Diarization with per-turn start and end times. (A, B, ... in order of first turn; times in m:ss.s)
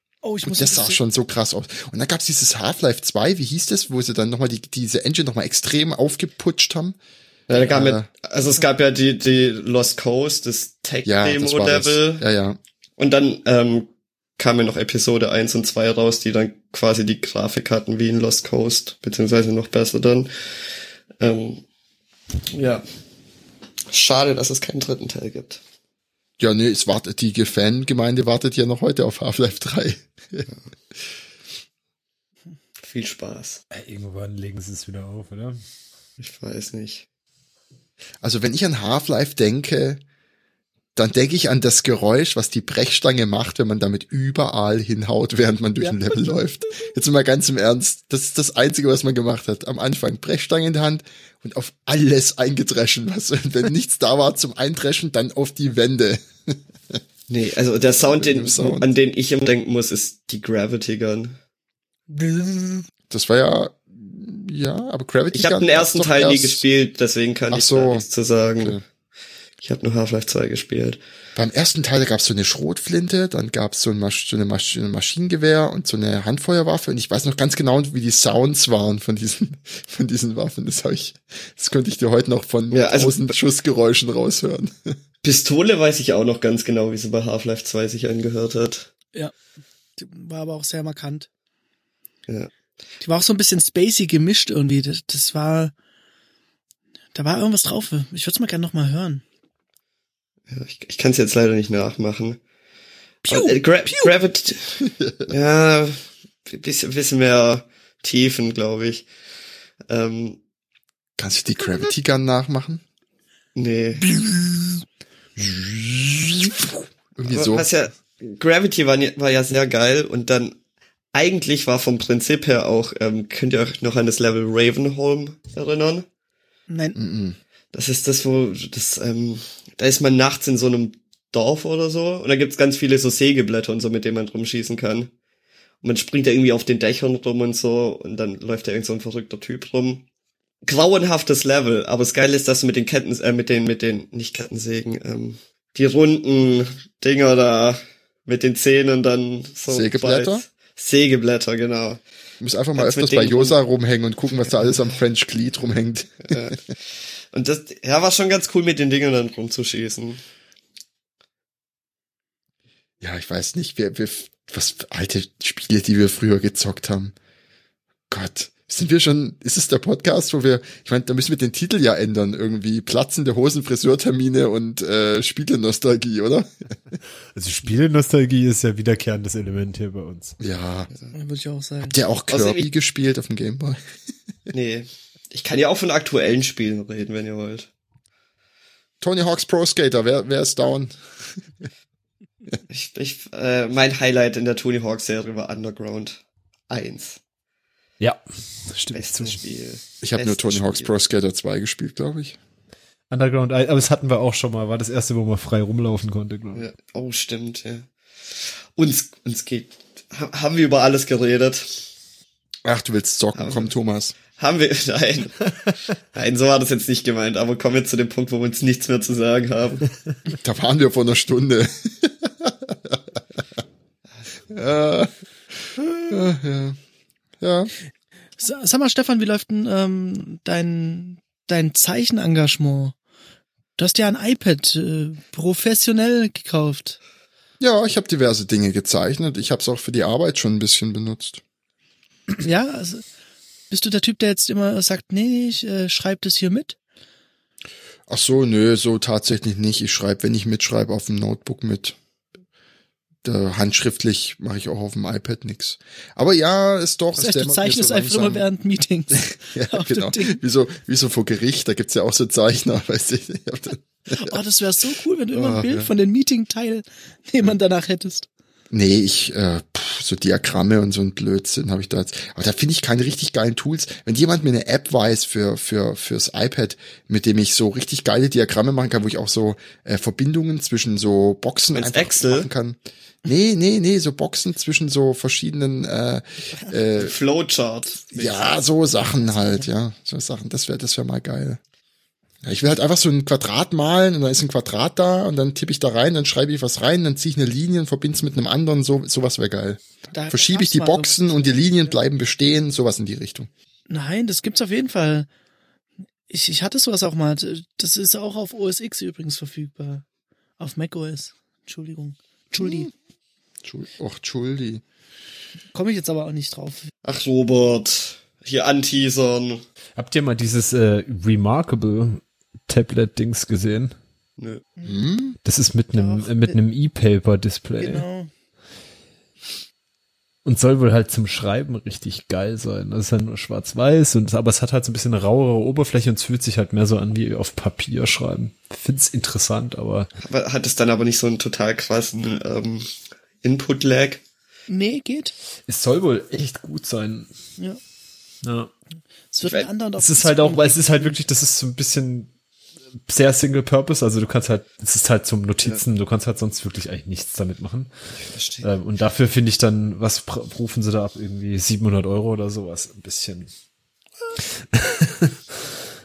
0:00.2-0:01.0 A
0:00.4-0:07.0 B
0:07.5-0:12.2 C
0:07.5-0:08.1 B
0:11.0-0:12.6 B
0:13.0-0:20.3 C
0:21.2-0:21.6 C
0:22.5-0:22.8 C
0:23.9-0:25.6 C
0:26.4-0:30.5 B
0:32.8-0:33.6 C
0:33.7-0:35.6 D
0:36.2-0:37.0 C
0:38.2-0:40.0 B
0:40.9-0:57.0 B
0:45.8-0:46.2 A
0:57.3-1:01.4 C
0:58.0-0:58.9 B
1:02.1-1:02.9 A
1:03.1-1:06.6 B
1:05.3-1:08.8 C
1:07.5-1:08.0 B
1:09.6-1:11.0 C
1:11.4-1:25.0 B
1:22.7-1:23.3 C
1:25.2-1:28.9 C
1:30.0-1:31.3 A
1:33.0-1:35.7 A
1:37.1-1:39.2 A
1:40.5-1:42.4 C
1:43.2-1:44.1 A
1:43.3-1:49.1 C
1:44.8-1:45.3 B
1:49.9-1:50.4 C
1:51.2-1:52.8 B
1:53.5-1:54.1 C
1:54.2-1:54.8 B
1:55.4-1:57.7 B
1:57.3-2:00.6 C
2:01.1-2:06.0 C
2:06.7-2:07.0 A
2:06.9-2:07.4 B
2:07.7-2:15.1 C
2:15.8-2:20.0 C
2:20.6-2:32.0 C
2:29.7-2:30.4 B
2:32.4-2:36.5 B
2:32.7-2:33.6 C
2:36.3-2:36.7 C
2:37.3-2:40.2 C
2:43.0-2:47.1 B
2:48.1-2:56.5 B
2:57.3-3:00.4 D
3:00.4-3:00.9 B
3:01.1-3:02.0 A
3:01.9-3:03.8 B
3:02.3-3:02.7 C
3:04.5-3:07.7 C
3:09.0-3:11.4 B
3:12.7-3:17.2 C
3:18.0-3:19.4 D
3:18.9-3:20.9 C
3:20.0-3:22.4 B
3:23.1-3:26.6 D
3:26.5-3:31.8 C
3:32.6-3:34.2 B
3:33.4-3:33.7 C
3:34.3-3:35.5 C
3:36.1-3:39.9 C
3:40.3-3:43.2 B
3:44.5-3:45.1 B
3:45.6-3:46.8 B
3:47.4-3:47.7 B
3:48.4-3:52.9 A
3:53.8-3:57.0 A
3:57.6-4:01.4 B
4:02.4-4:03.0 A
4:03.7-4:06.8 A
4:08.1-4:12.0 B
4:13.2-4:18.4 B
4:17.2-4:20.4 A
4:19.1-4:24.4 B
4:24.1-4:28.3 A
4:25.3-4:25.9 B
4:28.7-4:47.1 B
4:41.7-4:42.5 C
4:47.0-4:48.6 C
4:48.1-4:51.6 B
4:52.4-5:03.5 B
5:00.1-5:01.9 A
5:03.9-5:05.3 A
5:06.3-5:10.0 A
5:10.6-5:12.9 A
5:12.6-5:12.9 B
5:13.6-5:14.8 B
5:15.7-5:16.9 A
5:17.0-5:19.6 C
5:20.0-5:23.9 D
5:24.4-5:24.6 C
5:24.8-5:25.4 B
5:25.4-5:28.0 D
5:25.9-5:26.6 A
5:27.8-5:28.3 A
5:30.4-5:40.1 D
5:40.2-5:42.9 C
5:43.4-5:44.2 C
5:44.7-5:45.3 A
5:45.7-5:47.3 D
5:48.4-5:48.7 D
5:49.3-5:51.2 A
5:50.0-5:52.3 D
5:53.0-5:57.9 D
5:58.2-5:58.7 C
5:58.6-6:03.5 D
6:04.7-6:05.6 D